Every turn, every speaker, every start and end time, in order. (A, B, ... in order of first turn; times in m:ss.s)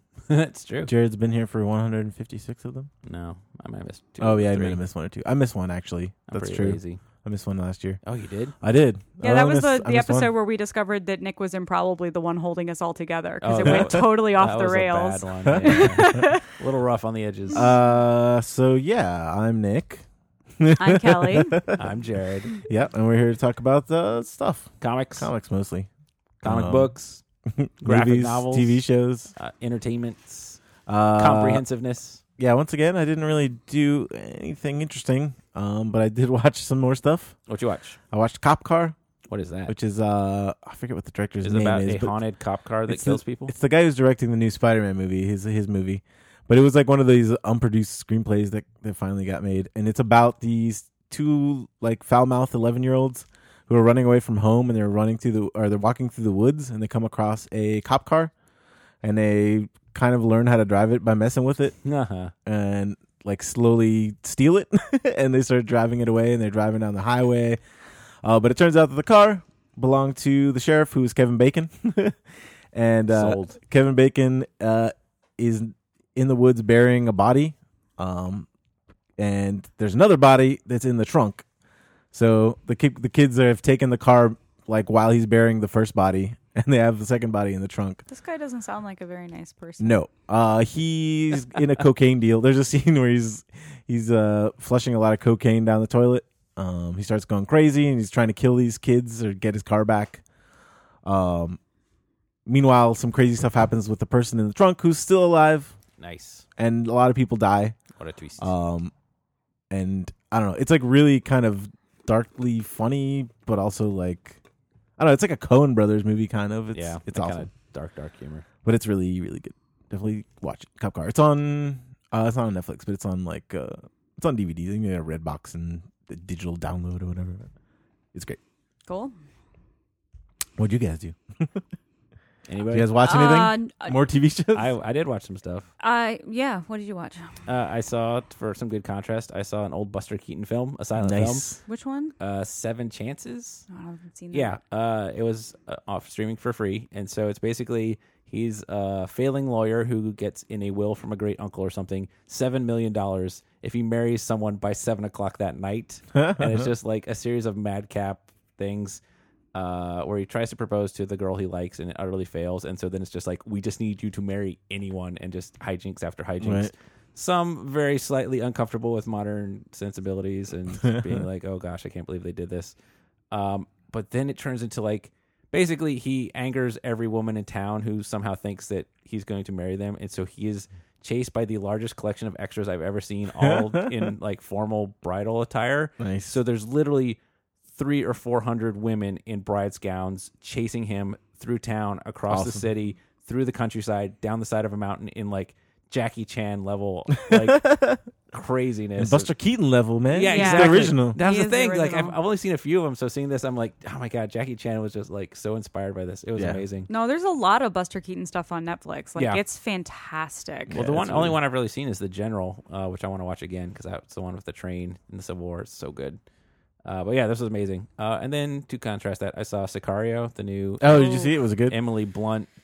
0:00.3-0:00.9 A
0:00.8-0:02.9 B
0:03.0-0:04.8 A
0:04.2-0:08.0 B
0:06.3-0:07.0 A
0:08.0-0:08.6 A
0:08.6-0:10.3 B
0:09.2-0:16.4 C
0:13.4-0:17.7 A
0:13.6-0:14.0 B
0:15.5-0:16.2 B
0:17.5-0:20.0 B
0:20.6-0:21.8 B
0:20.8-0:21.6 C
0:21.8-0:22.6 A
0:22.6-0:25.9 B
0:24.8-0:25.3 A
0:26.4-0:27.2 A
0:26.4-0:26.9 B
0:27.5-0:29.3 B
0:27.8-0:28.8 A
0:29.4-0:30.6 A
0:30.9-0:31.6 B
0:31.2-0:32.2 A
0:32.4-0:37.4 B
0:37.5-0:38.0 A
0:38.1-0:39.0 B
0:39.3-0:39.7 A
0:39.7-0:42.2 B
0:41.4-0:43.5 A
0:42.9-0:58.3 B
0:59.0-1:01.8 B
1:01.8-1:02.3 A
1:02.5-1:07.6 B
1:08.2-1:12.2 B
1:12.7-1:18.5 B
1:13.1-1:13.6 A
1:19.2-1:21.4 B
1:22.1-1:28.0 B
1:28.1-1:30.0 C
1:29.8-1:40.2 B
1:41.0-1:41.6 B
1:42.5-1:45.7 B
1:46.0-1:46.4 A
1:46.6-1:47.8 B
1:48.0-1:48.5 A
1:48.4-1:48.9 B
1:49.7-1:54.4 B
1:55.0-1:57.5 B
1:56.7-1:58.5 A
1:58.6-2:07.5 B
2:08.1-2:08.4 B
2:08.9-2:09.1 C
2:10.6-2:11.6 B
2:12.5-2:12.9 A
2:12.7-2:14.7 B
2:13.0-2:14.0 C
2:14.5-2:15.7 A
2:15.8-2:17.3 C
2:17.5-2:21.5 A
2:21.0-2:21.6 B
2:21.7-2:22.1 C
2:22.2-2:23.6 A
2:23.7-2:24.6 C
2:24.3-2:39.0 A
2:36.2-2:36.7 B
2:39.5-2:52.7 A
2:46.4-2:46.7 B
2:53.3-3:07.2 A
3:03.4-3:03.8 B
3:06.0-3:06.4 B
3:07.8-3:17.8 A
3:12.3-3:12.7 B
3:17.3-3:18.0 B
3:18.3-3:19.3 A
3:19.0-3:21.2 B
3:20.1-3:26.9 A
3:20.3-3:22.2 C
3:26.4-3:26.6 B
3:26.9-3:30.8 C
3:29.2-3:29.4 A
3:30.7-3:31.4 B
3:30.7-3:36.2 A
3:36.8-3:42.5 A
3:40.8-3:41.8 B